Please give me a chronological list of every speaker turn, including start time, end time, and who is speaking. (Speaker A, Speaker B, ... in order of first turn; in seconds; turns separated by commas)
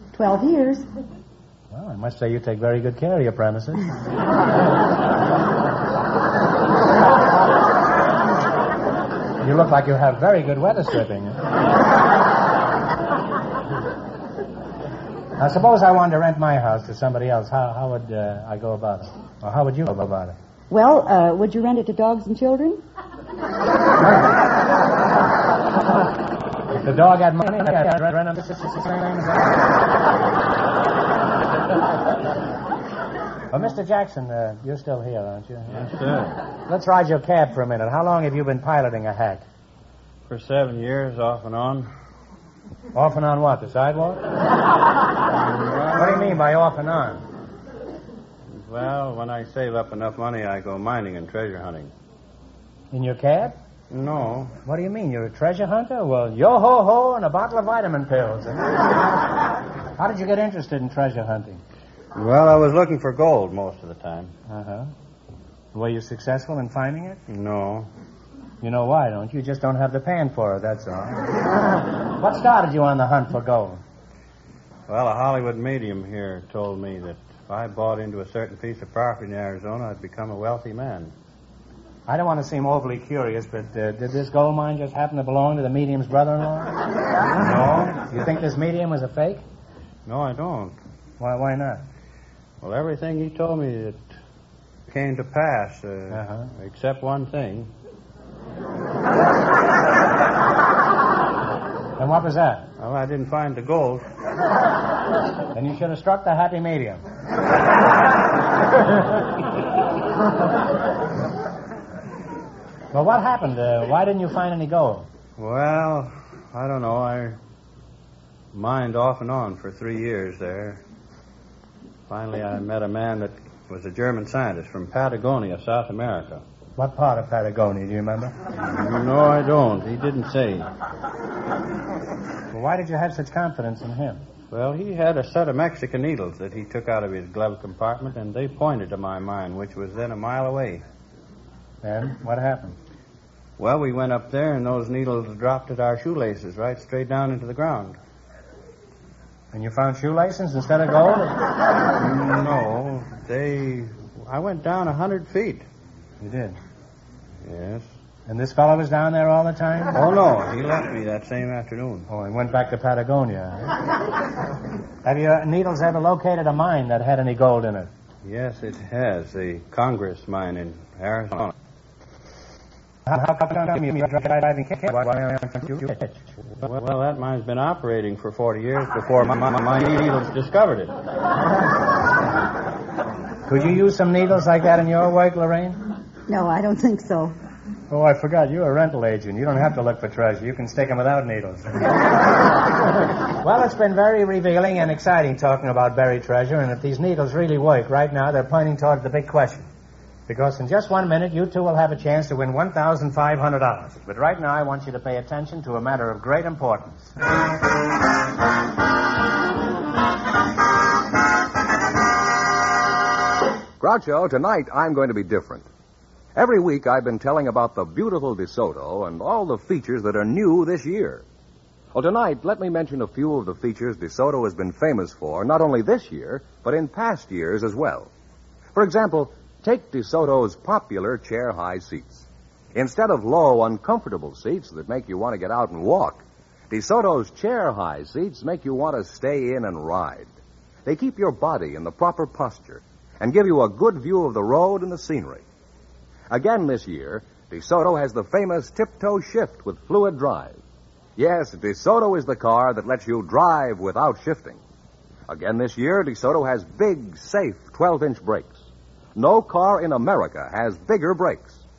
Speaker A: 0.1-0.9, Speaker B: 1.7-3.9, Speaker B: 9.4-11.4, Speaker B: 15.4-20.4, Speaker A: 20.7-22.8, Speaker B: 26.7-29.6, Speaker B: 33.5-35.8, Speaker C: 35.7-36.4, Speaker B: 36.7-39.4, Speaker C: 40.3-41.9, Speaker B: 42.9-44.2, Speaker C: 45.3-46.4, Speaker B: 45.9-47.2, Speaker C: 48.5-51.9, Speaker B: 52.9-53.6, Speaker C: 53.9-54.5, Speaker B: 54.6-58.9, Speaker B: 60.0-61.6, Speaker C: 62.1-64.3, Speaker B: 64.5-64.9, Speaker B: 65.7-67.2, Speaker C: 67.3-67.9, Speaker B: 68.6-73.8, Speaker C: 74.9-81.1, Speaker B: 82.1-86.8, Speaker B: 87.5-89.4, Speaker C: 87.5-87.9, Speaker C: 90.1-90.8, Speaker B: 91.2-91.8, Speaker C: 92.6-94.0, Speaker C: 94.9-97.7, Speaker B: 96.1-96.5, Speaker B: 102.0-102.7, Speaker C: 102.8-104.0, Speaker B: 105.5-107.0, Speaker B: 112.9-115.1, Speaker C: 115.4-117.4, Speaker C: 118.5-120.8, Speaker C: 122.1-126.4, Speaker B: 126.8-128.3, Speaker C: 128.7-130.7, Speaker B: 132.5-134.2, Speaker C: 134.5-140.8, Speaker B: 141.8-142.8, Speaker C: 143.6-148.0, Speaker B: 149.5-151.4, Speaker C: 152.0-155.7, Speaker B: 156.2-156.6, Speaker C: 157.4-157.9, Speaker B: 158.3-160.0, Speaker C: 159.9-162.1, Speaker B: 162.1-163.8, Speaker B: 165.0-167.9, Speaker C: 168.2-171.5, Speaker B: 173.1-176.3, Speaker C: 176.6-180.9, Speaker B: 183.5-185.8, Speaker A: 186.3-187.3, Speaker B: 187.9-191.7, Speaker B: 193.4-199.7, Speaker B: 200.3-207.1, Speaker D: 213.8-215.7, Speaker D: 216.3-221.2, Speaker D: 221.9-228.1, Speaker D: 228.7-240.3, Speaker D: 240.8-245.4, Speaker D: 246.3-250.6, Speaker D: 251.2-254.6, Speaker D: 255.3-258.6, Speaker D: 259.1-261.6